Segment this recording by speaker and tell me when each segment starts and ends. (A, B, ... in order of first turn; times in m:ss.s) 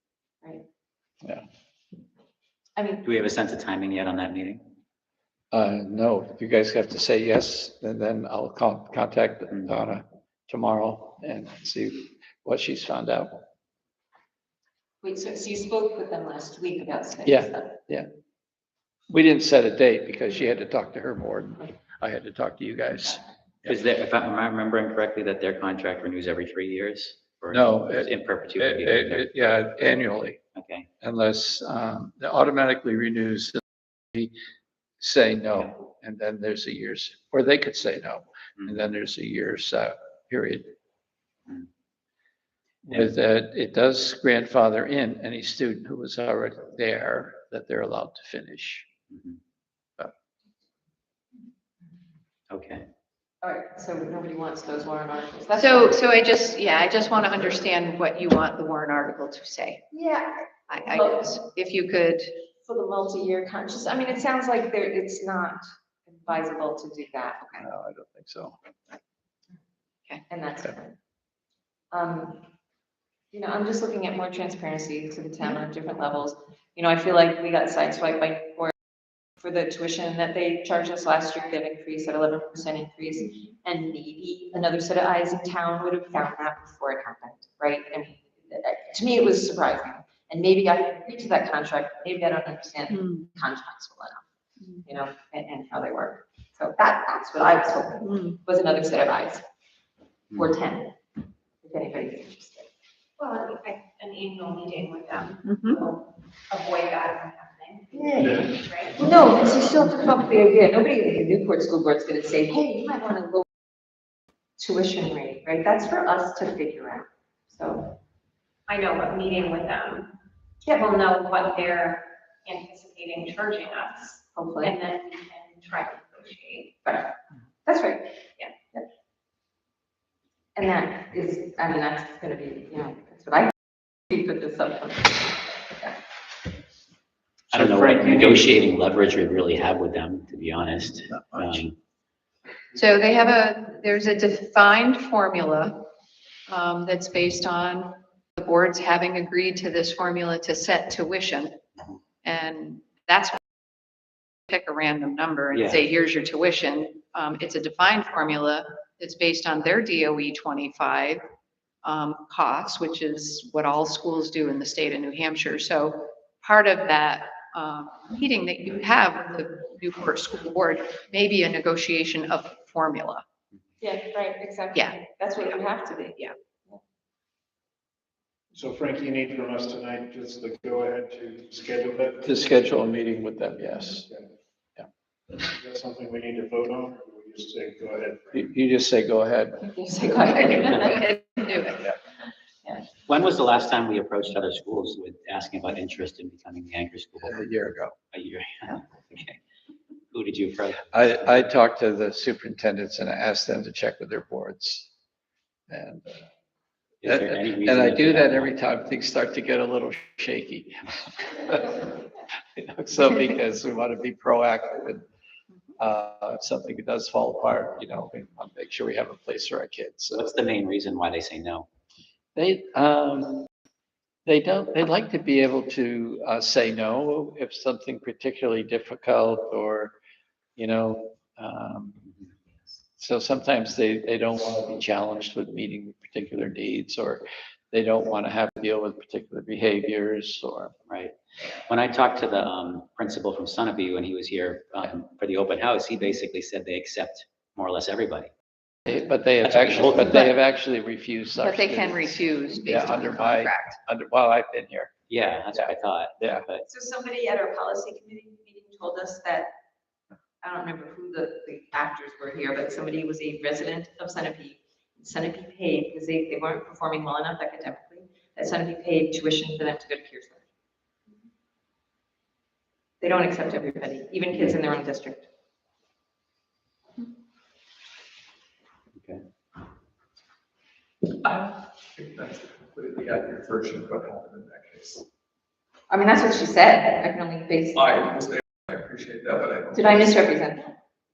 0:02.8-0:03.1 A
0:03.0-0:04.6 B
0:05.5-0:13.4 C
0:15.0-0:17.8 A
0:17.3-0:18.1 C
0:19.1-0:23.8 C
0:23.7-0:29.3 B
0:27.5-0:30.4 C
0:30.6-0:30.9 B
0:31.0-0:33.6 C
0:35.0-0:40.8 C
0:42.8-0:48.9 C
0:49.1-0:49.4 B
0:52.5-0:52.8 B
0:53.4-0:56.0 A
0:55.6-0:59.8 D
0:59.9-1:01.4 A
1:00.7-1:02.3 D
1:02.6-1:07.4 A
1:07.6-1:08.6 C
1:10.3-1:11.0 A
1:11.9-1:12.4 A
1:13.3-1:18.7 A
1:19.4-1:34.2 A
1:32.9-1:33.3 D
1:34.8-1:39.4 A
1:38.0-1:38.4 D
1:40.3-1:41.0 A
1:41.6-1:42.7 A
1:43.2-1:49.0 E
1:45.4-1:45.8 D
1:47.9-1:53.5 A
1:54.6-1:58.0 A
1:58.7-2:00.1 E
2:00.6-2:06.8 E
2:04.4-2:04.8 A
2:06.8-2:07.1 A
2:07.6-2:08.8 A
2:10.6-2:16.0 A
2:17.5-2:21.8 B
2:17.5-2:18.4 C
2:22.8-2:25.9 D
2:26.5-2:31.6 D
2:32.2-2:33.4 D
2:34.5-2:41.2 D
2:35.5-2:35.8 B
2:41.8-2:53.2 D
2:53.8-2:56.8 A
2:54.7-2:55.6 D
2:58.5-3:02.4 F
3:02.2-3:04.1 C
3:05.4-3:08.4 F
3:08.3-3:09.7 C
3:09.7-3:11.2 A
3:10.6-3:11.9 D
3:13.1-3:17.5 B
3:17.2-3:18.0 C
3:18.1-3:19.4 B
3:20.1-3:21.2 B
3:20.9-3:24.9 C
3:25.7-3:26.2 C
3:27.0-3:28.5 B
3:27.0-3:31.9 C
3:32.6-3:35.0 C
3:35.8-3:40.2 C
3:40.1-3:41.7 B
3:42.4-3:43.5 C
3:44.3-3:49.9 C
3:50.6-3:52.0 C
3:53.0-4:00.7 C
4:00.9-4:01.1 B
4:01.7-4:08.3 B
4:08.9-4:14.9 C
4:09.4-4:10.2 B
4:11.4-4:13.8 D
4:15.1-4:16.6 B
4:15.5-4:16.4 C
4:16.7-4:19.5 A
4:20.4-4:30.4 A
4:33.0-4:35.3 A
4:42.2-4:44.9 G
4:45.9-4:48.2 A
4:49.7-4:50.8 A